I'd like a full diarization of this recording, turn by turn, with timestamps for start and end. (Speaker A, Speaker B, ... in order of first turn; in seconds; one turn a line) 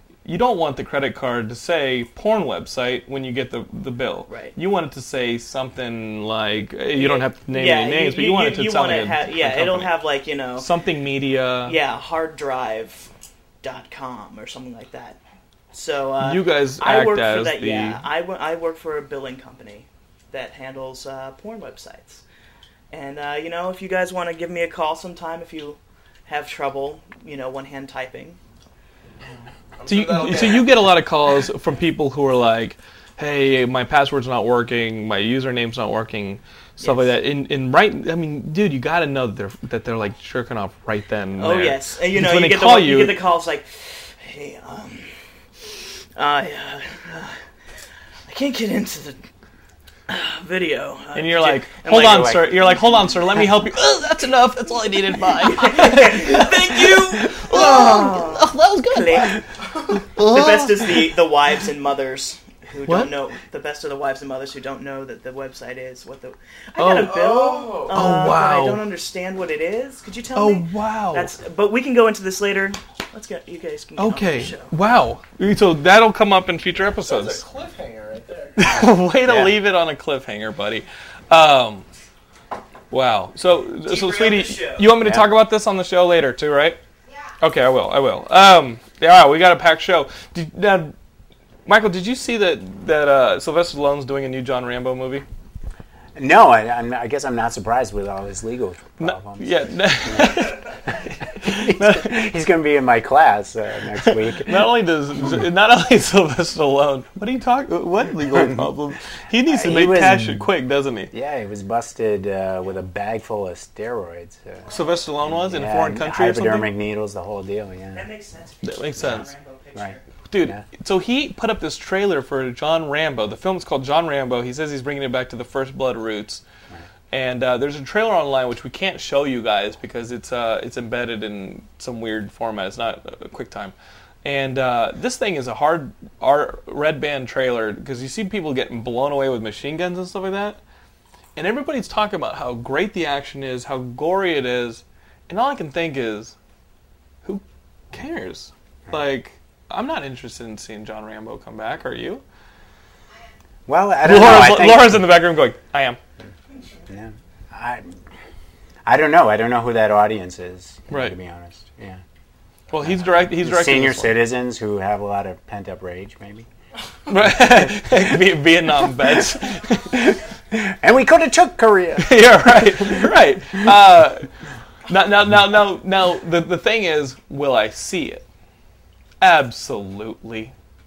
Speaker A: 0.2-9.9
Speaker B: 4.3-4.5
Speaker B: 7.0-10.7
Speaker A: 10.6-11.8
Speaker B: 11.7-13.1
Speaker B: 13.6-15.2
Speaker B: 15.7-22.2
Speaker A: 16.2-18.0
Speaker B: 22.9-28.4
Speaker C: 29.2-30.8
Speaker A: 29.9-43.2
Speaker B: 36.8-37.1
Speaker B: 41.4-45.2
Speaker B: 46.1-47.4
Speaker B: 48.3-49.2
Speaker B: 50.1-52.8
Speaker A: 51.1-61.1
Speaker B: 55.4-59.4
Speaker C: 59.6-60.0
Speaker B: 60.2-74.9
Speaker A: 62.9-63.1
Speaker A: 66.8-67.2
Speaker C: 66.9-68.2
Speaker A: 67.9-68.8
Speaker A: 70.3-71.4
Speaker A: 74.0-77.5
Speaker C: 77.0-78.7
Speaker A: 78.6-81.9
Speaker D: 78.7-79.5
Speaker A: 82.9-86.8
Speaker B: 83.9-84.9
Speaker D: 85.0-85.4
Speaker A: 87.4-91.0
Speaker A: 91.7-95.3
Speaker D: 96.2-100.5
Speaker A: 99.0-102.2
Speaker D: 101.4-104.6
Speaker A: 104.0-111.1
Speaker D: 109.5-110.5
Speaker D: 111.1-114.7
Speaker A: 114.7-116.7
Speaker D: 115.2-118.1
Speaker B: 117.9-120.0
Speaker A: 118.6-119.3
Speaker D: 119.8-120.6
Speaker A: 120.3-126.4
Speaker A: 127.1-140.6
Speaker A: 141.4-146.3
Speaker A: 147.2-152.2
Speaker D: 153.7-155.1
Speaker A: 154.0-156.0
Speaker D: 156.9-158.0
Speaker D: 158.9-162.0
Speaker A: 160.9-161.2
Speaker A: 162.7-164.2
Speaker D: 162.7-166.5
Speaker A: 167.1-170.1
Speaker D: 167.4-168.3
Speaker D: 169.9-172.8
Speaker A: 172.0-174.3
Speaker A: 174.9-178.2
Speaker A: 179.2-180.5